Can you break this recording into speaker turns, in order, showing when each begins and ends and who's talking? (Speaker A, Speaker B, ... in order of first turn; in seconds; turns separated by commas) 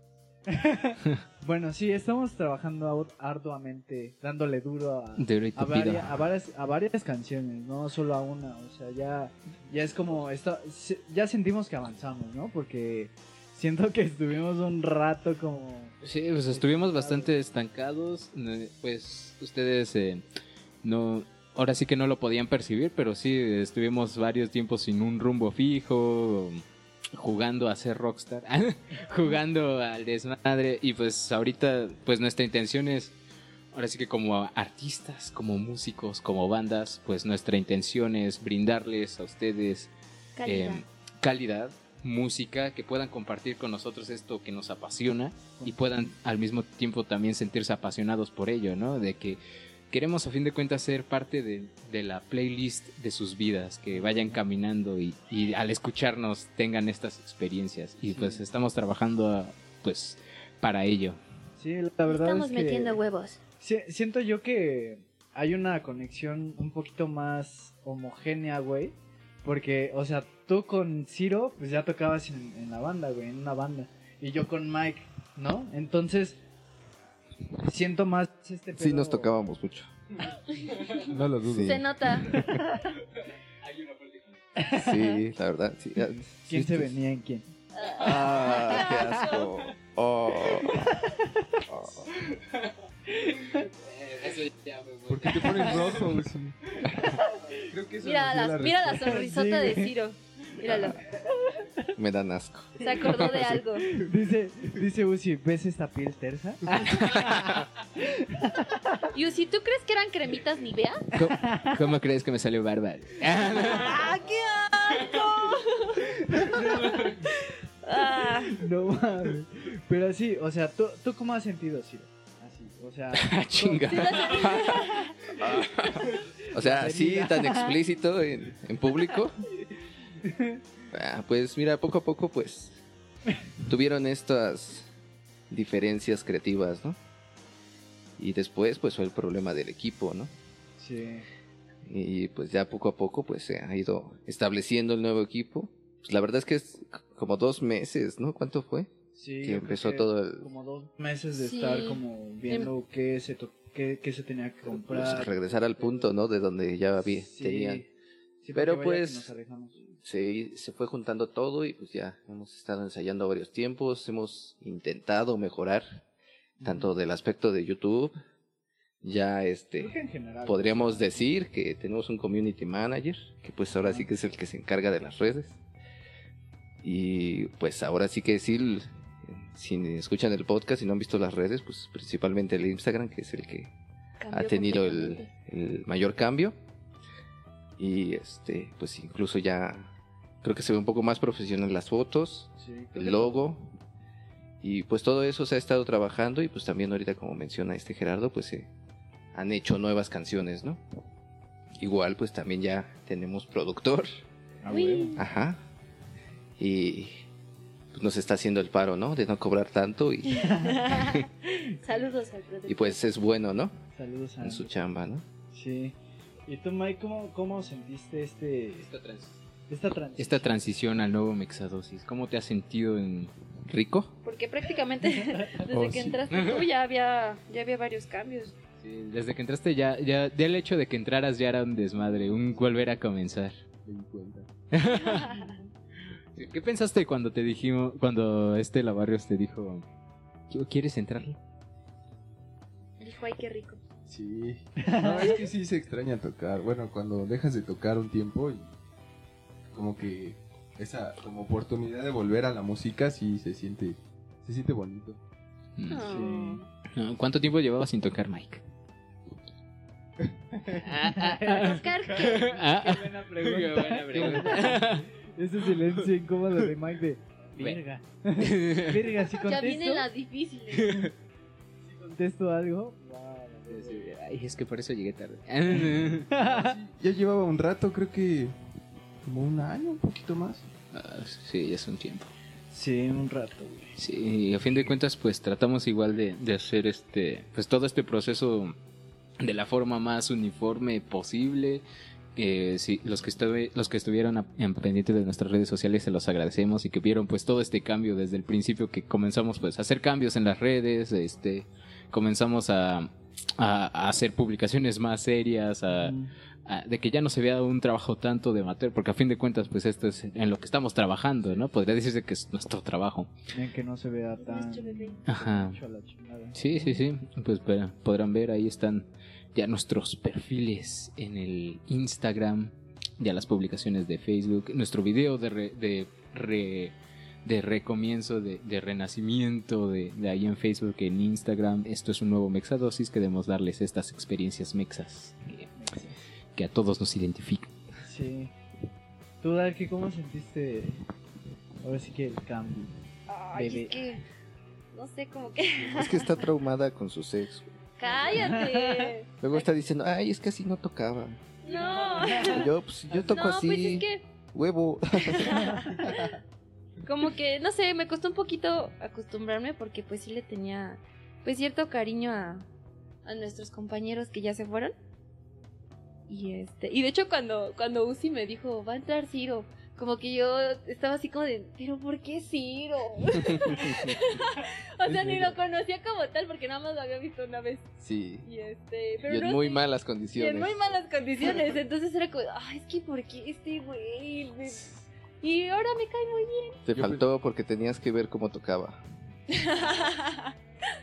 Speaker A: 0.5-16.0, Speaker B: 5.2-6.2, Speaker B: 16.0-20.2, Speaker A: 16.5-17.3, Speaker B: 20.8-26.6, Speaker B: 27.1-33.1, Speaker B: 33.7-39.9, Speaker C: 40.4-40.8, Speaker B: 40.5-49.4, Speaker A: 45.6-46.1, Speaker B: 49.9-61.2, Speaker A: 53.9-54.4, Speaker A: 58.1-58.4, Speaker A: 61.6-63.0, Speaker C: 62.1-63.4, Speaker A: 63.6-76.4, Speaker A: 77.6-79.3, Speaker D: 78.8-79.9, Speaker C: 80.6-81.0, Speaker E: 81.0-81.8, Speaker D: 81.4-81.8, Speaker C: 81.6-82.5, Speaker B: 83.6-84.4, Speaker A: 84.6-84.9, Speaker D: 84.7-87.0, Speaker C: 84.9-85.2, Speaker A: 86.5-87.5, Speaker C: 87.7-89.5, Speaker D: 88.0-90.9, Speaker A: 90.6-91.6, Speaker D: 91.7-92.1, Speaker B: 92.1-92.7, Speaker A: 93.2-93.7, Speaker B: 93.5-96.0, Speaker E: 95.1-99.2, Speaker A: 97.0-97.4, Speaker C: 98.0-101.0, Speaker A: 99.0-99.9, Speaker A: 101.1-101.9, Speaker D: 102.0-103.6, Speaker C: 102.8-103.9, Speaker A: 103.8-109.1, Speaker C: 109.1-111.0, Speaker B: 111.1-114.0, Speaker A: 111.3-111.8, Speaker C: 113.6-117.1, Speaker A: 116.2-117.4, Speaker C: 117.8-118.6, Speaker A: 118.5-124.8, Speaker B: 123.2-124.5, Speaker C: 123.9-125.1, Speaker D: 124.2-129.4, Speaker A: 126.1-127.8, Speaker A: 130.2-130.6, Speaker D: 130.9-132.8, Speaker D: 133.7-134.9, Speaker D: 135.5-137.0, Speaker D: 138.2-140.3, Speaker A: 140.8-141.2, Speaker D: 141.8-148.9, Speaker A: 149.2-156.1, Speaker D: 149.4-150.5, Speaker C: 151.3-152.7, Speaker D: 154.7-157.8, Speaker A: 157.1-157.9, Speaker A: 158.4-159.8, Speaker D: 158.5-159.3, Speaker D: 160.0-166.0, Speaker A: 166.6-166.9, Speaker D: 166.6-168.2, Speaker D: 169.0-175.6, Speaker A: 169.8-171.2, Speaker D: 176.8-183.7, Speaker C: 184.2-185.3, Speaker D: 184.3-186.6, Speaker D: 187.8-193.7, Speaker A: 192.6-193.4, Speaker D: 194.6-198.7, Speaker D: 199.3-200.8, Speaker D: 201.8-204.2, Speaker A: 204.6-205.2, Speaker C: 204.7-205.2, Speaker D: 205.2-205.6, Speaker D: 206.6-207.2, Speaker D: 207.9-210.6, Speaker C: 210.3-213.0, Speaker A: 210.5-210.8, Speaker D: 212.7-213.8, Speaker A: 213.9-214.7, Speaker D: 214.4-215.2, Speaker A: 215.5-215.9, Speaker A: 216.5-218.9, Speaker B: 218.8-219.4, Speaker A: 219.7-220.5, Speaker B: 220.2-223.3, Speaker D: 223.7-224.1, Speaker C: 224.2-228.6, Speaker E: 225.7-226.1, Speaker B: 226.3-226.7, Speaker B: 228.8-233.6, Speaker E: 233.8-234.5, Speaker B: 234.7-235.5, Speaker C: 235.0-235.6, Speaker B: 236.3-239.8, Speaker B: 240.5-241.4, Speaker C: 243.0-243.8, Speaker E: 244.1-248.7, Speaker A: 244.8-245.3, Speaker E: 249.7-255.2, Speaker B: 255.8-256.1, Speaker C: 255.9-256.7, Speaker A: 256.1-256.6, Speaker B: 256.9-258.6, Speaker E: 260.5-260.9, Speaker B: 260.8-265.1, Speaker A: 261.1-270.1, Speaker C: 261.5-262.6, Speaker E: 264.1-265.0, Speaker B: 268.4-269.2, Speaker C: 269.5-271.1, Speaker B: 270.7-271.1, Speaker A: 271.8-274.1, Speaker B: 273.7-276.3, Speaker A: 275.9-276.8, Speaker E: 276.3-278.5, Speaker E: 279.2-280.6, Speaker B: 280.9-282.3, Speaker A: 282.7-283.9, Speaker B: 284.0-288.7, Speaker B: 289.4-291.8, Speaker B: 292.4-306.1, Speaker A: 305.9-306.3, Speaker B: 306.7-313.3, Speaker A: 313.5-317.0, Speaker C: 314.4-315.2, Speaker B: 315.3-315.8, Speaker B: 316.6-335.7, Speaker A: 335.8-336.2, Speaker B: 336.6-337.7, Speaker A: 338.0-338.5, Speaker A: 339.4-341.0, Speaker A: 341.8-343.0, Speaker C: 343.3-344.2, Speaker A: 343.5-344.0, Speaker C: 344.9-346.3, Speaker D: 345.9-347.7, Speaker C: 348.0-349.7, Speaker A: 348.3-349.1, Speaker D: 349.4-351.4, Speaker C: 351.6-354.3, Speaker A: 352.1-352.7, Speaker D: 352.5-355.8, Speaker C: 355.2-356.3, Speaker C: 357.0-362.6, Speaker C: 363.2-365.0, Speaker C: 366.3-377.9, Speaker E: 373.6-373.9, Speaker E: 375.1-375.6, Speaker D: 378.0-378.5, Speaker C: 378.4-379.8, Speaker D: 379.2-380.8, Speaker C: 380.3-386.8, Speaker D: 386.9-389.0, Speaker E: 386.9-387.3, Speaker C: 389.5-390.5